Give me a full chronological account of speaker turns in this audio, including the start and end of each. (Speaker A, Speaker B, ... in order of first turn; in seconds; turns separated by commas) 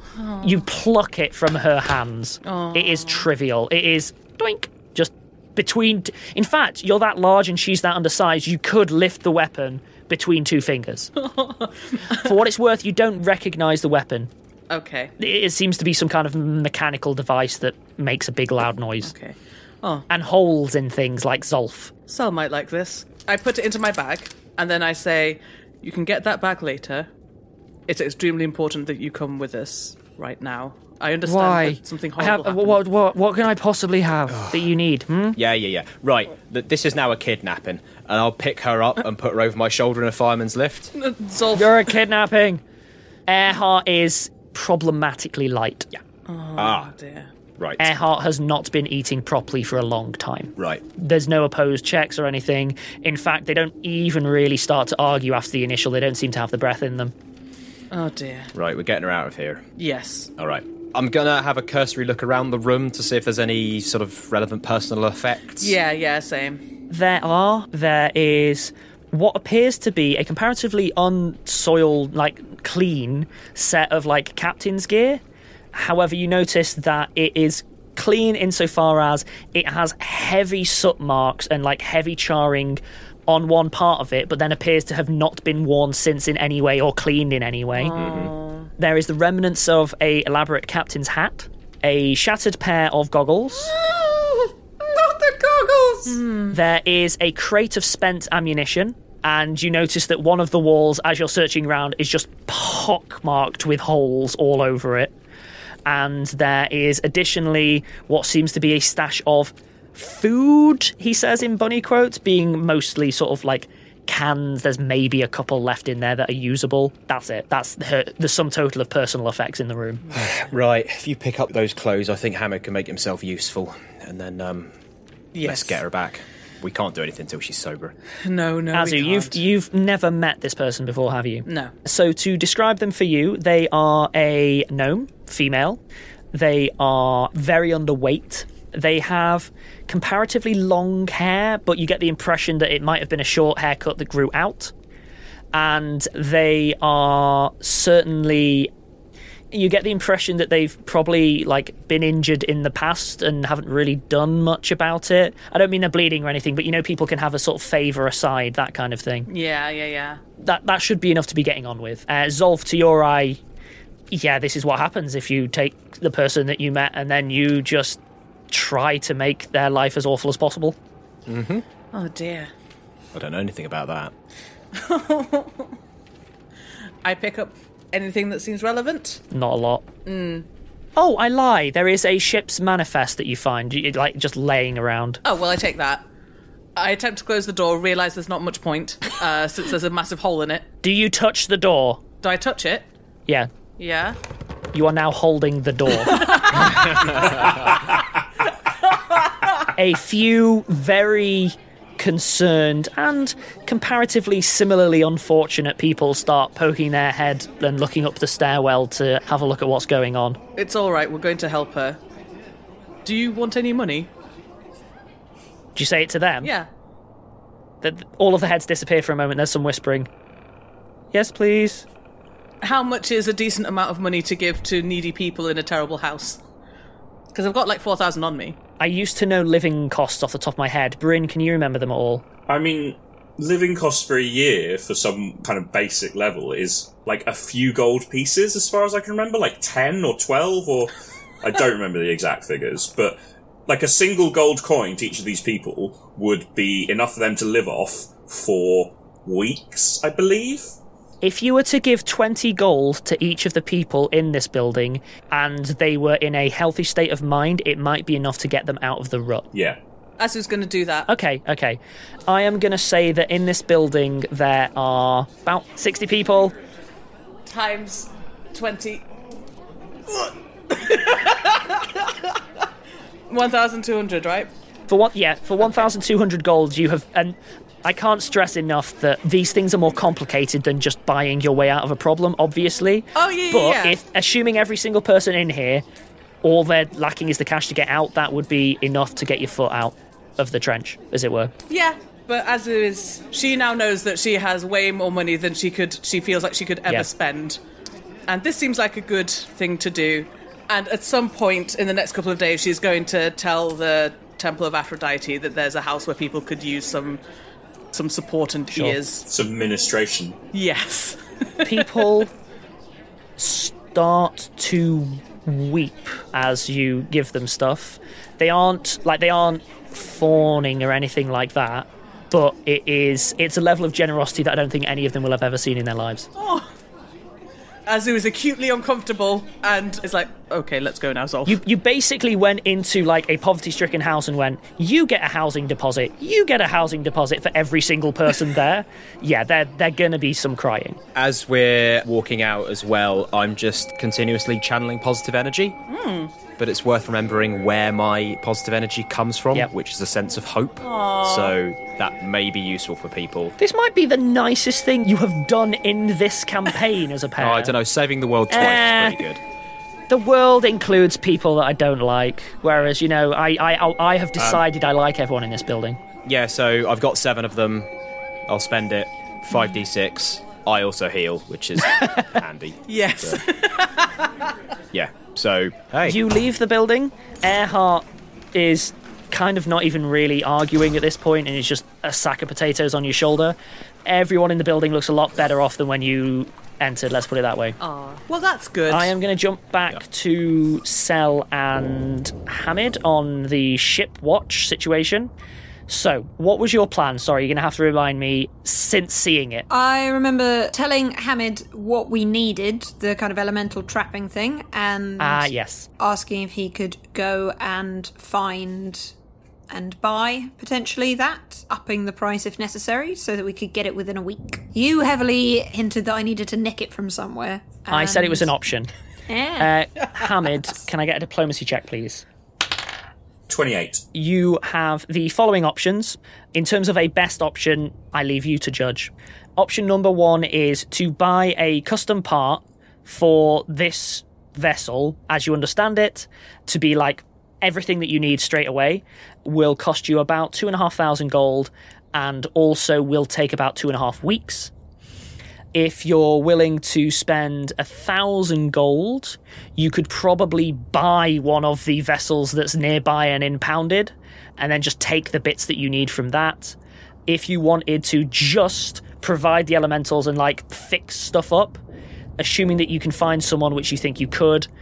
Speaker A: 0.1-0.7, Speaker B: 0.4-11.1, Speaker A: 2.4-3.3, Speaker A: 11.2-12.3, Speaker B: 12.1-14.3, Speaker A: 14.7-15.1, Speaker B: 15.2-19.1, Speaker A: 19.0-20.1, Speaker B: 20.1-21.9, Speaker A: 22.1-27.1, Speaker A: 27.9-32.8, Speaker B: 31.2-35.4, Speaker C: 34.3-34.7, Speaker C: 35.4-40.9, Speaker A: 40.9-41.9, Speaker B: 41.5-42.6, Speaker B: 43.3-45.9, Speaker A: 46.2-47.3, Speaker C: 46.5-46.9, Speaker C: 47.6-47.9, Speaker B: 47.8-57.1, Speaker C: 50.6-50.8, Speaker A: 57.9-58.5, Speaker C: 58.5-59.6, Speaker A: 59.8-60.3, Speaker C: 60.4-65.8, Speaker A: 65.6-66.6, Speaker B: 66.9-75.2, Speaker B: 75.7-88.0, Speaker A: 87.8-88.7, Speaker C: 87.9-88.3, Speaker B: 88.8-93.7, Speaker D: 93.6-96.2, Speaker A: 96.0-96.5, Speaker B: 96.5-105.1, Speaker B: 105.8-120.0, Speaker C: 120.1-124.7, Speaker A: 125.3-125.8, Speaker C: 125.4-127.9, Speaker A: 128.2-129.4, Speaker B: 128.7-135.8, Speaker A: 131.4-131.7, Speaker B: 136.3-144.7, Speaker B: 145.5-148.7, Speaker B: 149.5-159.3, Speaker A: 159.3-160.2, Speaker B: 160.4-163.4, Speaker B: 164.1-170.8, Speaker C: 171.3-171.6, Speaker A: 171.9-172.5, Speaker C: 173.1-174.1, Speaker A: 174.7-175.7, Speaker A: 177.0-179.2, Speaker B: 179.3-179.8, Speaker A: 180.1-180.5, Speaker B: 180.9-185.2, Speaker A: 185.2-186.0, Speaker A: 186.8-190.7, Speaker B: 190.8-192.0, Speaker A: 192.2-192.9, Speaker A: 193.8-194.2, Speaker B: 194.7-196.6, Speaker A: 196.0-197.2, Speaker E: 197.3-197.8, Speaker A: 199.1-199.5, Speaker B: 199.7-210.4, Speaker A: 210.6-212.0, Speaker A: 213.0-214.1, Speaker B: 215.8-216.5, Speaker A: 216.4-216.7, Speaker B: 217.8-220.1, Speaker B: 221.1-221.9, Speaker A: 222.6-226.4, Speaker A: 227.3-228.6, Speaker B: 228.8-232.2, Speaker E: 232.5-250.8, Speaker B: 251.2-259.5, Speaker E: 259.5-259.8, Speaker A: 260.2-261.1, Speaker B: 261.1-266.5, Speaker A: 267.5-269.1, Speaker A: 270.1-272.3, Speaker A: 273.3-274.5, Speaker B: 274.9-285.8, Speaker A: 283.1-284.0, Speaker B: 286.4-291.5, Speaker A: 291.7-297.6, Speaker A: 298.3-307.2, Speaker A: 307.9-309.2, Speaker B: 308.7-309.0, Speaker E: 309.3-310.4, Speaker A: 310.5-311.9, Speaker B: 311.6-312.3, Speaker B: 313.4-326.3, Speaker A: 326.4-326.7, Speaker A: 327.9-331.6, Speaker B: 331.4-341.0, Speaker C: 341.1-345.8, Speaker A: 345.9-346.3, Speaker C: 346.6-353.5, Speaker A: 350.8-351.5, Speaker B: 353.6-357.7, Speaker C: 357.4-359.4, Speaker B: 358.5-359.2, Speaker B: 360.1-366.0, Speaker C: 364.4-364.6, Speaker C: 366.2-367.9, Speaker C: 368.5-373.4, Speaker B: 372.0-372.2, Speaker A: 372.9-374.3, Speaker C: 374.9-376.2, Speaker B: 376.0-387.8, Speaker A: 387.8-389.1, Speaker B: 388.9-395.3, Speaker B: 395.9-399.6, Speaker D: 399.7-409.1, Speaker B: 405.2-405.9, Speaker D: 409.7-418.5, Speaker B: 417.9-418.9, Speaker D: 419.3-419.7, Speaker B: 419.6-422.2, Speaker E: 423.5-424.0, Speaker B: 424.1-444.7, Speaker B: 445.7-456.8, Speaker B: 457.3-461.8, Speaker B: 462.4-464.7